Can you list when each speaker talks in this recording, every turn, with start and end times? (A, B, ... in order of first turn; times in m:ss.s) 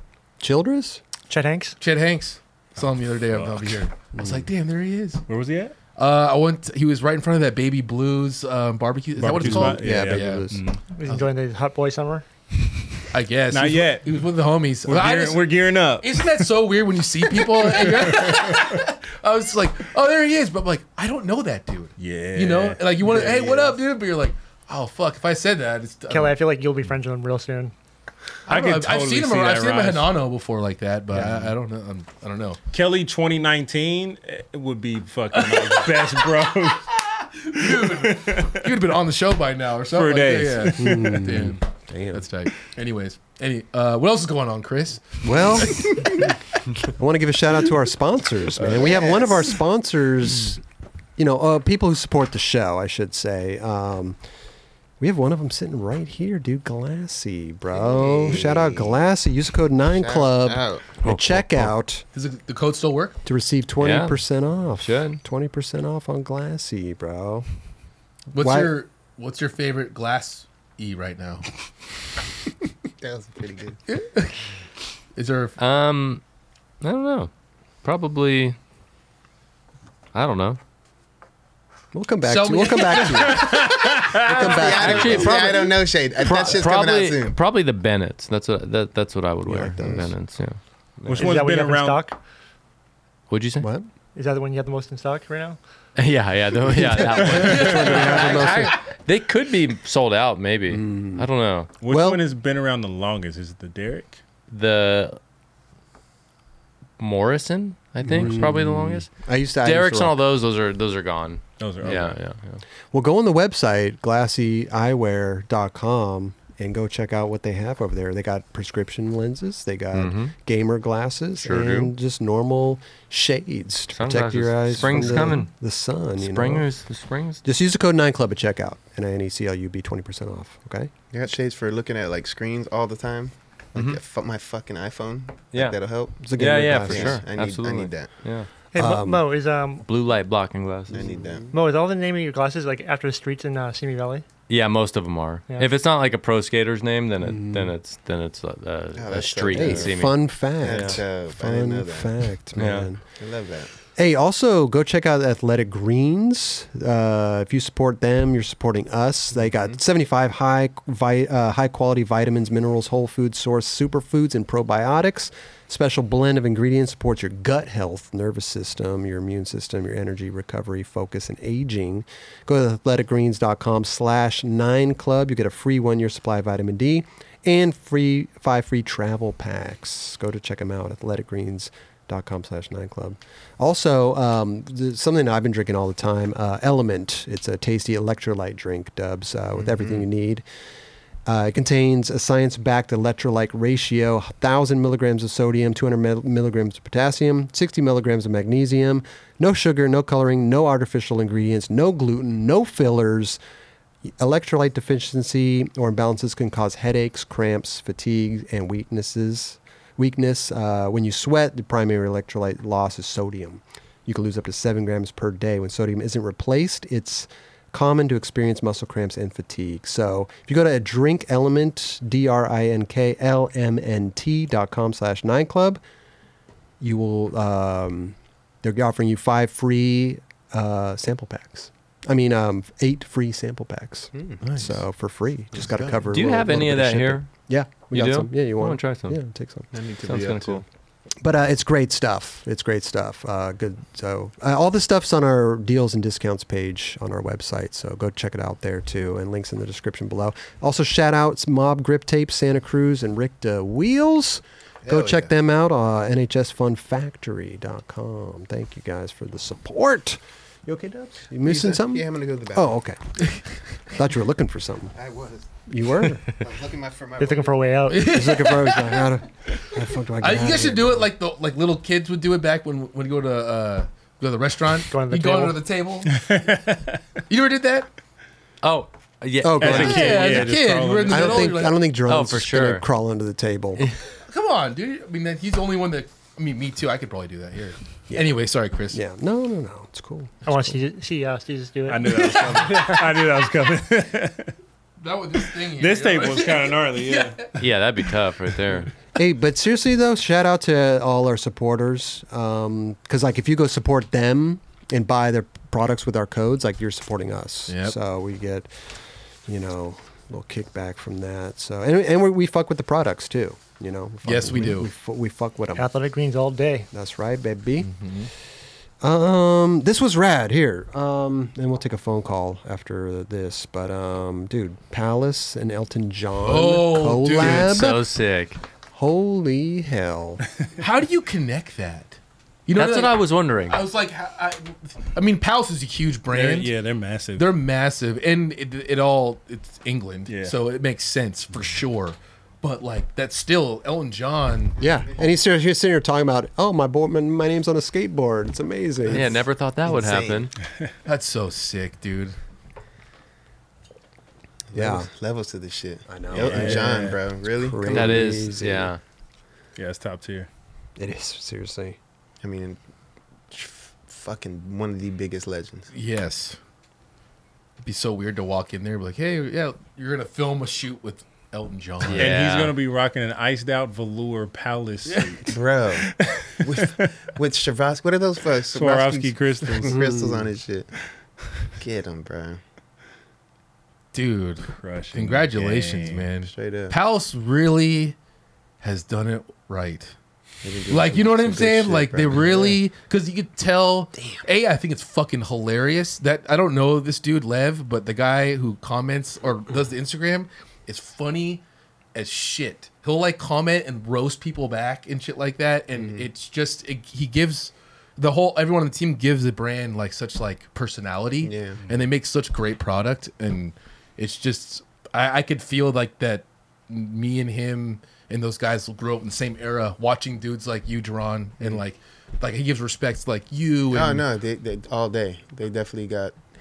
0:00.4-0:01.0 A
0:01.3-0:01.8 B
0:01.8-0:05.2 C
0:03.2-0:03.8 D
0:04.1-0:04.5 A
0:05.3-0:05.7 D
0:05.9-0:10.5 C
0:09.2-0:10.8 D
0:09.4-0:10.6 A
0:10.9-0:12.2 B
0:13.1-0:26.4 C
0:13.5-0:14.3 D
0:14.8-0:16.5 D
0:17.3-0:18.8 D
0:22.0-0:23.3 D
0:26.1-0:27.7 B
0:28.5-0:30.1 D
0:28.5-0:32.6 C
0:31.1-0:31.5 D
0:32.7-0:36.9 D
0:35.3-0:46.3 C
0:37.5-0:38.8 D
0:39.9-0:41.5 D
0:40.8-0:42.2 A
0:45.2-0:46.2 A
0:46.8-0:50.6 A
0:48.6-0:49.3 C
0:51.2-0:54.2 A
0:55.0-1:02.0 A
0:57.7-0:58.9 E
0:59.9-1:00.9 E
1:01.0-1:01.6 F
1:02.1-1:03.2 C
1:03.2-1:07.4 A
1:03.8-1:04.2 F
1:04.8-1:05.2 F
1:08.3-1:11.5 C
1:08.3-1:08.7 A
1:13.0-1:13.8 E
1:13.9-1:14.4 C
1:15.1-1:15.6 C
1:15.6-1:16.2 F
1:16.8-1:17.3 F
1:17.8-1:18.6 F
1:20.1-1:20.6 F
1:21.9-1:25.5 A
1:22.2-1:23.7 C
1:23.1-1:24.5 D
1:24.2-1:27.4 E
1:24.6-1:31.3 F
1:29.4-1:30.1 A
1:29.8-1:30.1 E
1:31.0-1:32.0 D
1:31.2-1:32.2 B
1:33.3-1:33.7 F
1:33.6-1:33.9 A
1:34.1-1:35.6 B
1:36.0-1:41.7 F
1:37.2-1:38.8 A
1:37.4-1:38.5 C
1:40.7-1:41.3 A
1:41.8-1:44.2 D
1:41.9-1:42.2 A
1:44.5-1:45.2 F
1:47.0-1:49.1 F
1:48.1-1:50.2 A
1:49.6-1:52.6 F
1:51.6-1:52.2 D
1:52.9-2:06.7 A
1:59.9-2:00.3 F
2:01.4-2:01.9 F
2:03.9-2:05.5 F
2:06.2-2:07.4 F
2:07.4-2:10.9 A
2:11.1-2:18.1 E
2:13.7-2:14.0 F
2:15.5-2:18.5 F
2:16.2-2:17.2 A
2:18.7-2:19.8 B
2:18.8-2:19.2 A
2:19.8-2:21.1 F
2:20.9-2:21.5 A
2:20.9-2:21.5 E
2:21.5-2:24.2 B
2:24.5-2:31.0 F
2:27.2-2:27.7 A
2:29.0-2:30.1 E
2:29.5-2:33.0 A
2:30.6-2:32.1 E
2:32.6-2:32.9 F
2:33.2-2:33.7 E
2:34.0-3:10.4 A
2:39.4-2:39.8 E
3:09.5-3:10.0 E
3:11.2-3:23.4 A
3:24.0-3:45.8 A
3:46.8-3:59.7 A
3:54.1-3:54.4 E
3:54.4-3:54.8 C
3:56.1-3:59.2 F
3:59.7-4:00.6 E
4:00.0-4:00.6 F
4:01.2-4:23.3 A
4:14.8-4:15.3 E
4:21.4-4:22.7 E
4:23.9-4:24.9 A
4:25.0-4:25.6 E
4:25.7-4:26.2 A
4:26.2-4:27.7 E
4:27.2-4:28.2 B
4:27.9-4:29.1 C
4:28.0-4:31.1 A
4:30.2-4:36.3 C
4:34.9-4:35.6 B
4:36.1-4:37.0 D
4:37.3-4:37.9 C
4:38.6-4:40.4 F
4:39.4-4:40.4 A
4:39.6-4:41.6 D
4:39.6-4:41.8 C
4:41.1-4:43.8 A
4:42.0-4:42.8 F
4:44.3-4:49.0 C
4:48.1-4:48.3 A
4:48.9-4:50.5 A
4:50.4-4:53.2 B
4:51.9-4:54.5 D
4:55.0-4:57.5 C
4:55.6-4:57.6 D
4:57.6-4:58.9 F
4:59.2-5:08.9 A
5:07.7-5:08.0 C
5:09.4-5:15.9 A
5:14.2-5:14.9 C
5:15.8-5:16.9 B
5:16.9-5:17.9 A
5:17.8-5:18.3 C
5:19.0-5:28.0 A
5:26.4-5:28.0 C
5:27.4-5:28.6 F
5:28.9-5:30.4 A
5:30.8-5:36.7 C
5:32.8-5:33.8 F
5:36.3-5:37.5 D
5:37.4-5:44.8 C
5:40.3-5:40.6 D
5:44.8-5:49.4 A
5:44.8-5:45.2 E
5:49.0-5:50.5 E
5:49.1-5:50.5 F
5:51.0-5:52.3 C
5:54.7-5:58.2 E
5:54.7-5:55.1 A
5:56.1-5:58.9 A
5:56.3-5:57.2 D
5:57.8-5:59.0 F
5:59.8-6:00.5 D
6:01.0-6:02.0 A
6:02.4-6:02.8 E
6:03.5-6:05.9 E
6:05.9-6:06.6 C
6:07.8-6:12.3 C
6:12.1-6:12.7 F
6:12.1-6:17.1 D
6:15.5-6:16.1 E
6:16.6-6:20.9 E
6:18.7-6:20.0 D
6:19.9-6:20.5 A
6:21.8-6:22.6 E
6:24.1-6:28.1 C
6:24.8-6:26.3 D
6:26.4-6:26.9 E
6:28.8-6:30.1 C
6:30.6-6:32.8 E
6:30.9-6:41.6 C
6:42.1-7:04.2 C
6:45.9-6:46.3 E
6:51.4-6:51.8 E
7:03.9-7:06.4 E